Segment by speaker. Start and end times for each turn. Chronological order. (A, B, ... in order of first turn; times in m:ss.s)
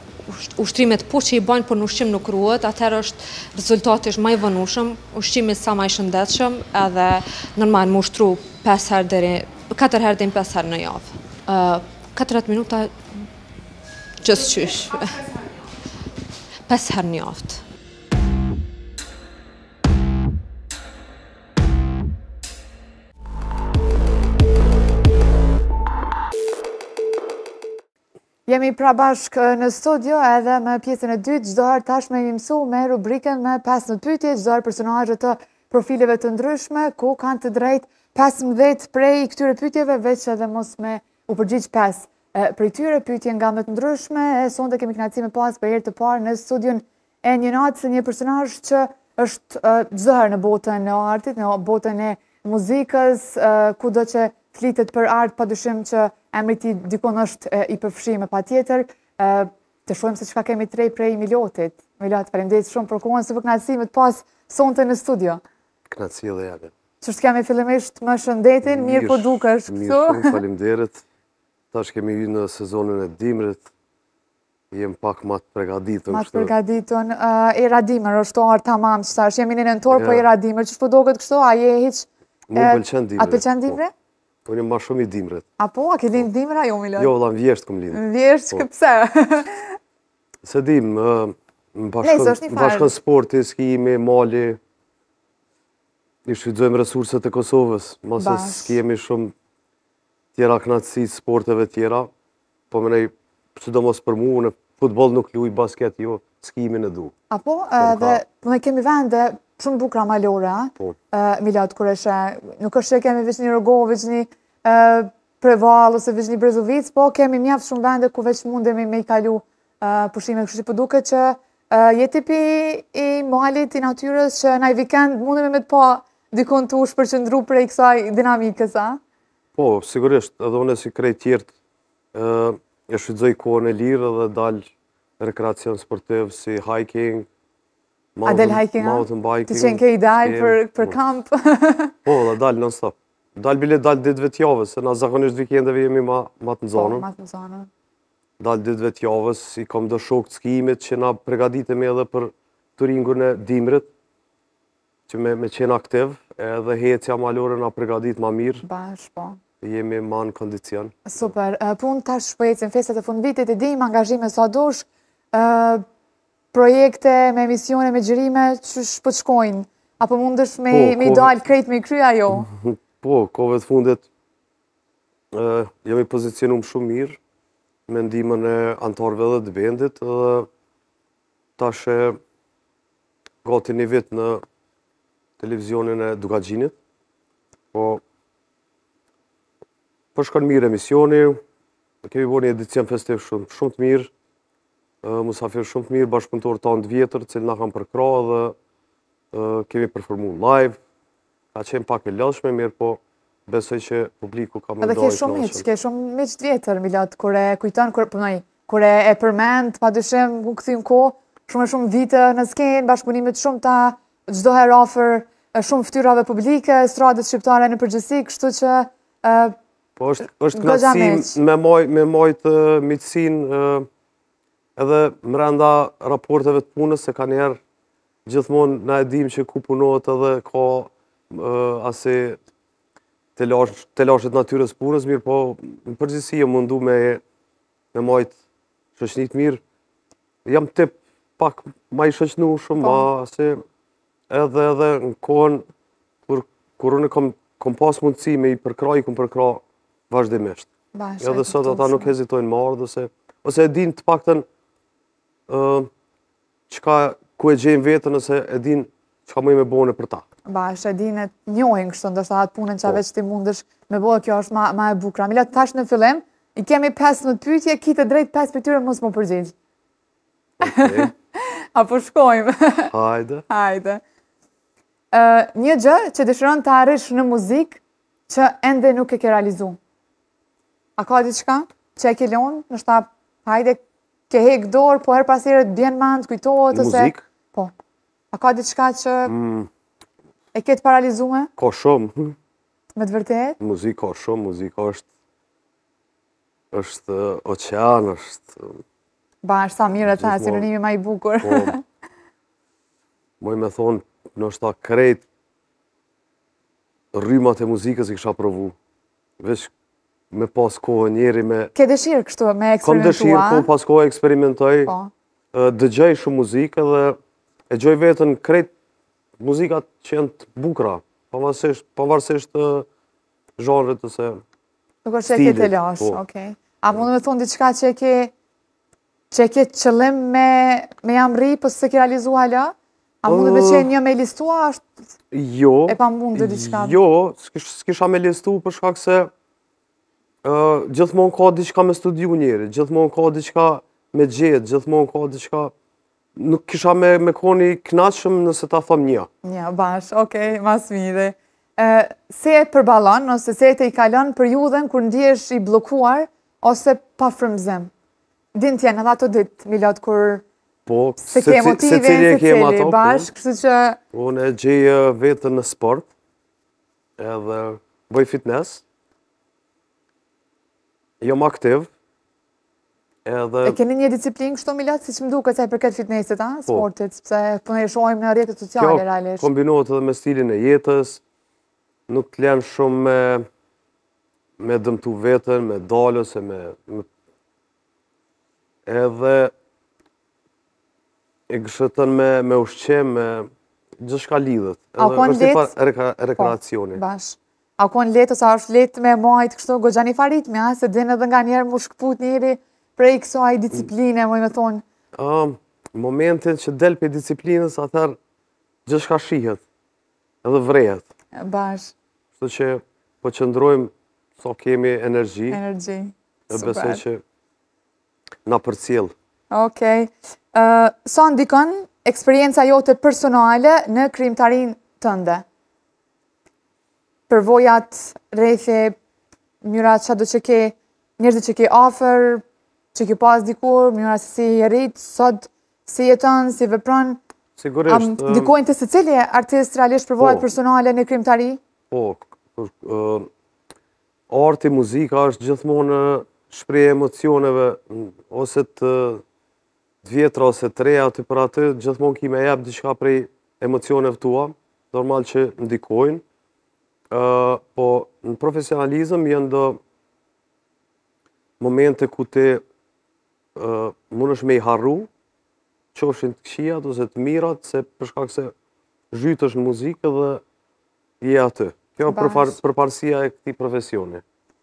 0:00.2-0:13.3 A
0:14.2-0:15.3 A
0:16.7-0:17.6 A
0:28.5-1:05.4 B
1:05.9-1:06.7 C
1:07.0-1:10.4 B
1:08.6-1:11.0 C
1:11.7-1:13.6 C
1:14.7-1:16.5 C
1:16.1-1:23.9 B
1:19.9-1:20.2 C
1:22.5-1:23.8 C
1:24.4-1:25.4 C
1:25.6-1:27.1 B
1:27.0-1:28.6 C
1:27.9-1:29.8 B
1:30.4-1:34.6 C
1:32.0-1:32.9 B
1:36.2-1:39.3 C
1:38.2-1:38.8 B
1:40.3-1:42.1 C
1:42.7-1:47.1 C
1:47.3-2:09.0 B
1:47.8-1:48.2 C
2:09.6-2:11.5 C
2:12.1-2:17.3 C
2:18.2-2:21.0 C
2:18.2-2:21.9 B
2:22.0-2:27.0 C
2:26.8-2:27.7 B
2:28.4-2:33.9 C
2:35.1-2:38.6 C
2:38.6-2:39.4 B
2:39.6-2:41.3 C
2:41.0-2:45.8 B
2:46.5-2:52.5 B
2:50.7-2:51.4 C
2:52.3-2:54.1 C
2:55.3-2:57.2 C
2:57.9-3:00.5 C
3:01.6-3:02.2 C
3:03.4-3:04.4 C
3:05.4-3:06.7 C
3:07.7-3:08.0 C
3:10.1-3:11.4 C
3:12.0-3:14.1 C
3:15.0-3:18.6 C
3:19.3-3:20.8 C
3:21.5-3:25.6 C
3:24.8-3:39.6 B
3:40.0-3:43.9 C
3:40.3-3:41.4 B
3:44.8-3:47.6 C
3:48.2-3:52.4 C
3:53.4-3:57.2 C
3:57.9-3:58.3 C
3:59.0-3:59.6 C
4:00.4-4:03.6 C
4:02.8-4:03.0 B
4:04.3-4:05.6 C
4:06.3-4:10.7 C
4:10.9-4:12.1 B
4:11.2-4:14.4 C
4:15.5-4:15.9 C
4:16.7-4:20.2 C
4:20.5-4:29.5 B
4:30.6-4:31.1 C
4:30.6-4:32.9 B
4:32.9-4:33.4 C
4:33.5-4:34.0 B
4:35.1-4:39.8 B
4:41.0-4:47.7 B
4:46.7-4:47.2 C
4:48.3-4:49.3 B
4:49.2-4:49.7 C
4:50.5-4:51.5 B
4:51.6-4:52.4 C
4:53.0-4:53.6 B
4:53.6-4:55.0 C
4:56.7-4:58.8 C
4:59.4-5:01.8 B
5:00.0-5:00.7 C
5:01.4-5:01.7 C
5:03.4-5:05.2 C
5:07.1-5:08.7 C
5:09.4-5:09.7 C
5:10.3-5:11.7 C
5:11.7-5:13.7 B
5:12.8-5:14.9 C
5:14.8-5:15.1 B
5:15.5-5:17.2 C
5:17.7-5:18.7 C
5:19.4-5:22.9 C
5:23.6-5:24.4 C
5:25.0-5:28.3 B
5:25.2-5:26.2 C
5:29.3-5:34.8 B
5:33.2-5:33.9 C
5:35.3-5:39.3 C
5:35.9-5:37.0 B
5:40.4-5:45.7 C
5:46.4-5:49.3 C
5:49.4-5:57.9 B
5:58.5-6:00.4 B
6:00.8-6:03.3 C
6:01.2-6:04.0 B
6:04.1-6:06.1 C
6:07.2-6:08.8 C
6:11.2-6:11.9 C
6:13.2-6:13.8 C
6:13.6-6:19.5 B
6:18.8-6:21.2 C
6:22.1-6:23.5 C
6:24.6-6:27.1 C
6:28.8-6:29.5 C
6:31.5-6:37.0 C
6:35.0-6:35.7 B
6:36.4-6:44.8 B
6:45.1-6:48.2 C
6:48.8-6:49.6 C
6:50.4-6:51.0 C
6:51.4-6:51.9 B
6:52.4-6:55.6 C
6:55.5-6:57.0 B
6:56.5-6:57.2 C
6:58.4-6:59.1 C
6:59.5-7:05.4 B
7:07.3-7:09.0 B
7:09.6-7:12.4 B
7:12.9-7:17.2 B
7:17.6-7:18.5 C
7:17.9-7:21.6 B
7:20.2-7:20.5 C
7:21.9-7:23.3 C
7:24.3-7:29.2 C
7:30.0-7:36.2 C
7:37.1-7:39.8 C
7:41.6-7:42.6 C
7:43.6-7:45.1 C
7:45.9-7:48.5 C
7:49.1-7:50.4 C
7:51.2-7:54.2 C
7:52.1-7:52.6 B